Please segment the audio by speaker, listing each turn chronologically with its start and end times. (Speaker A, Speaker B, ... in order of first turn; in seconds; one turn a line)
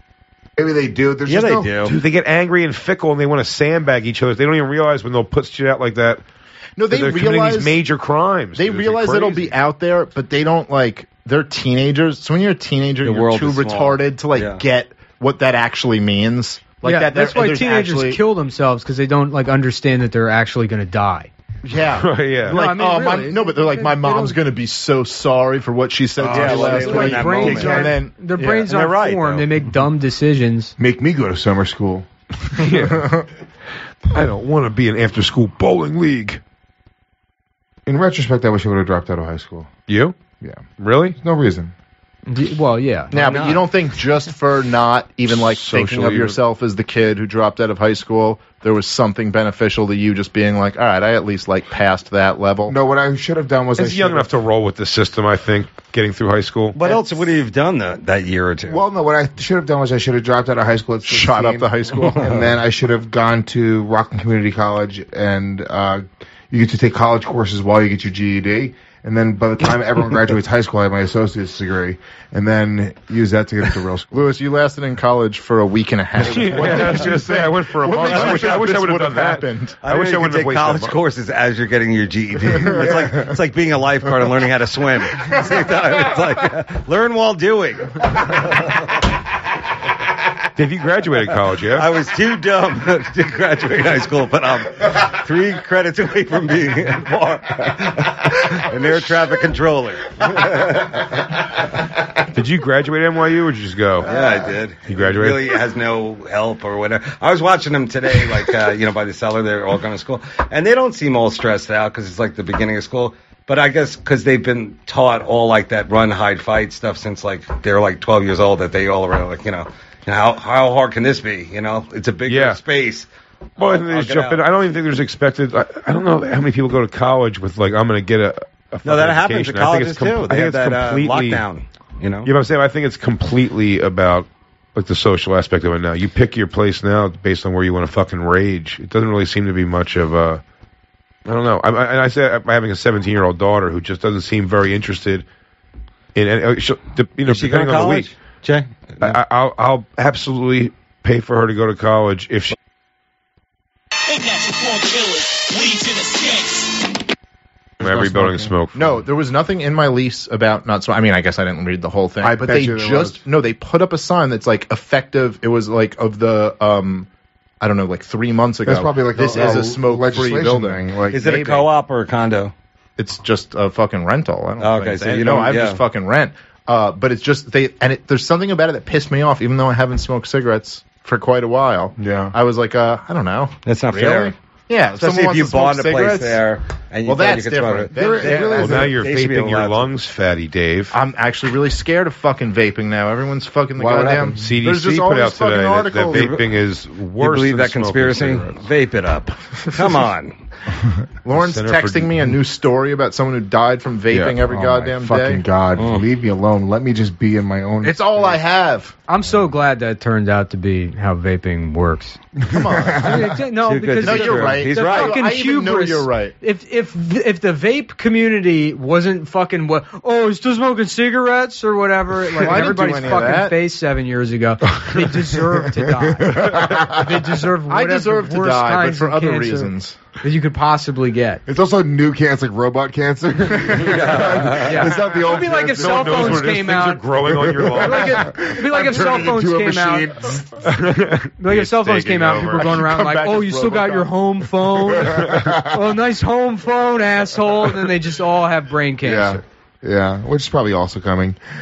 Speaker A: 0.6-1.8
Speaker B: 1.3-1.9
Speaker C: 1.9-6.2
Speaker D: 6.8-7.8
Speaker C: 6.9-9.6
Speaker D: 8.6-18.2
Speaker B: 13.0-14.6
Speaker E: 16.8-21.3
Speaker D: 21.7-28.1
Speaker C: 22.0-22.6
Speaker E: 22.5-24.4
Speaker E: 26.2-30.7
Speaker B: 26.2-29.5
Speaker A: 26.5-27.7
Speaker A: 30.8-32.1
Speaker C: 32.6-33.1
Speaker C: 34.1-36.4
Speaker A: 37.9-39.7
Speaker C: 39.9-40.2
Speaker C: 40.8-41.2
Speaker A: 41.2-41.7
Speaker E: 42.3-43.1
Speaker D: 43.1-52.8
Speaker B: 43.1-43.6
Speaker C: 45.7-46.3
Speaker A: 52.7-54.3
Speaker C: 53.8-56.8
Speaker B: 56.7-58.8
Speaker A: 58.7-74.2
Speaker D: 61.1-62.4
Speaker D: 74.1-79.8
Speaker C: 76.2-81.0
Speaker A: 76.6-77.0
Speaker A: 77.9-78.7
Speaker B: 79.8-88.8
Speaker A: 82.8-83.2
Speaker C: 90.6-91.9
Speaker B: 91.7-100.9
Speaker C: 102.3-104.1
Speaker B: 104.0-124.4
Speaker C: 104.8-105.5
Speaker C: 122.3-122.6
Speaker C: 123.6-131.5
Speaker B: 128.8-132.3
Speaker C: 132.2-140.4
Speaker C: 141.3-145.3
Speaker C: 146.2-148.1
Speaker B: 147.2-149.2
Speaker C: 149.0-152.6
Speaker F: 154.1-156.9
Speaker C: 157.8-159.1
Speaker A: 158.2-158.4
Speaker D: 158.2-167.1
Speaker A: 162.2-163.2
Speaker D: 167.6-171.7
Speaker A: 168.7-171.1
Speaker B: 171.1-172.5
Speaker D: 173.0-186.4
Speaker B: 174.6-175.8
Speaker B: 183.7-184.3
Speaker B: 185.0-189.9
Speaker D: 187.0-189.0
Speaker A: 188.0-188.8
Speaker C: 188.7-190.9
Speaker D: 190.9-196.4
Speaker C: 194.3-198.6
Speaker B: 196.1-196.4
Speaker B: 197.2-200.4
Speaker D: 201.2-205.5
Speaker C: 201.3-202.3
Speaker A: 204.8-208.0
Speaker B: 205.8-206.0
Speaker D: 207.8-208.9
Speaker E: 209.1-212.2
Speaker D: 212.5-213.3
Speaker E: 213.0-231.4
Speaker B: 213.6-215.2
Speaker D: 214.0-216.3
Speaker D: 222.3-223.6
Speaker A: 226.1-227.0
Speaker D: 227.7-230.0
Speaker A: 231.5-236.6
Speaker B: 234.0-234.9
Speaker E: 234.6-237.0
Speaker C: 235.7-238.2
Speaker A: 237.3-240.4
Speaker E: 237.7-240.2
Speaker C: 240.7-242.8
Speaker E: 241.4-249.4
Speaker D: 242.8-244.1
Speaker A: 245.2-245.7
Speaker A: 249.0-251.4